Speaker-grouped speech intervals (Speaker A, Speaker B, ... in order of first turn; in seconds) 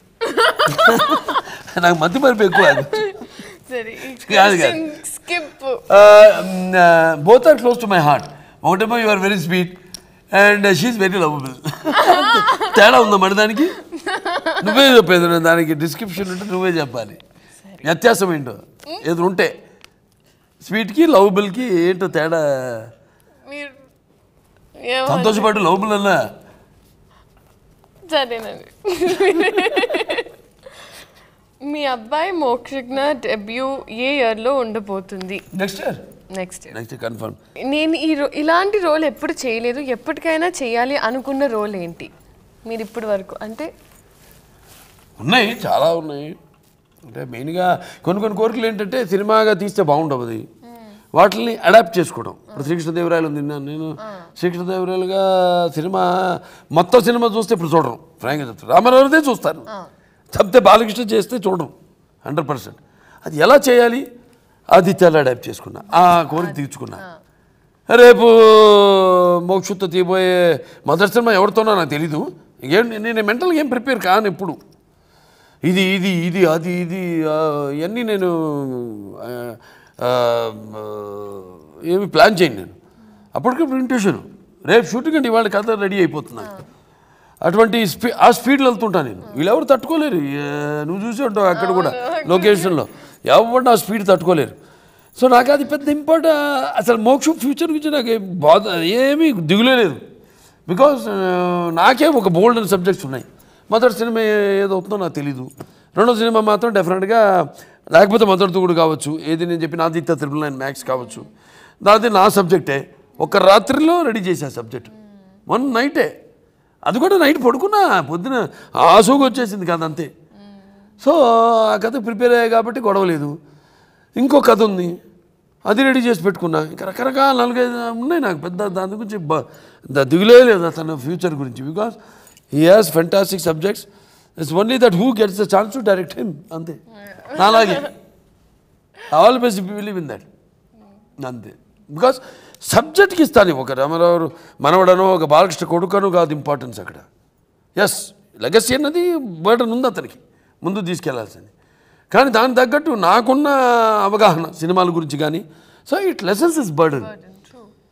Speaker A: 0.2-1.4, 2.6-5.8, 12.0-12.8, 13.8-14.9, 23.5-23.8, 24.8-25.5, 28.1-30.3, 31.6-35.4, 36.3-36.8, 37.6-42.1, 42.7-43.7, 54.0-54.3, 66.3-67.2, 91.5-92.8, 111.0-111.3, 137.1-137.9, 156.9-157.7
Speaker B: 0.7-3.2, 4.2-4.8, 5.9-9.8, 10.3-13.8, 14.6-17.2, 17.8-19.5, 20.6-22.9, 25.1-26.2, 29.2-30.0, 35.5-36.0, 36.7-37.4, 45.2-46.4, 47.1-50.5, 51.1-59.7, 60.3-61.7, 62.2-64.0, 64.7-67.0, 67.9-74.6, 75.7-82.8, 83.3-86.5, 87.4-94.6, 95.2-100.0, 100.7-111.3, 111.8-114.9, 115.5-116.1, 116.9-120.1, 121.0-123.3, 124.2-124.9, 125.7-132.0, 132.5-136.8, 137.3-137.9, 139.1-140.3, 141.2-147.1, 147.8-151.5, 152.1-157.1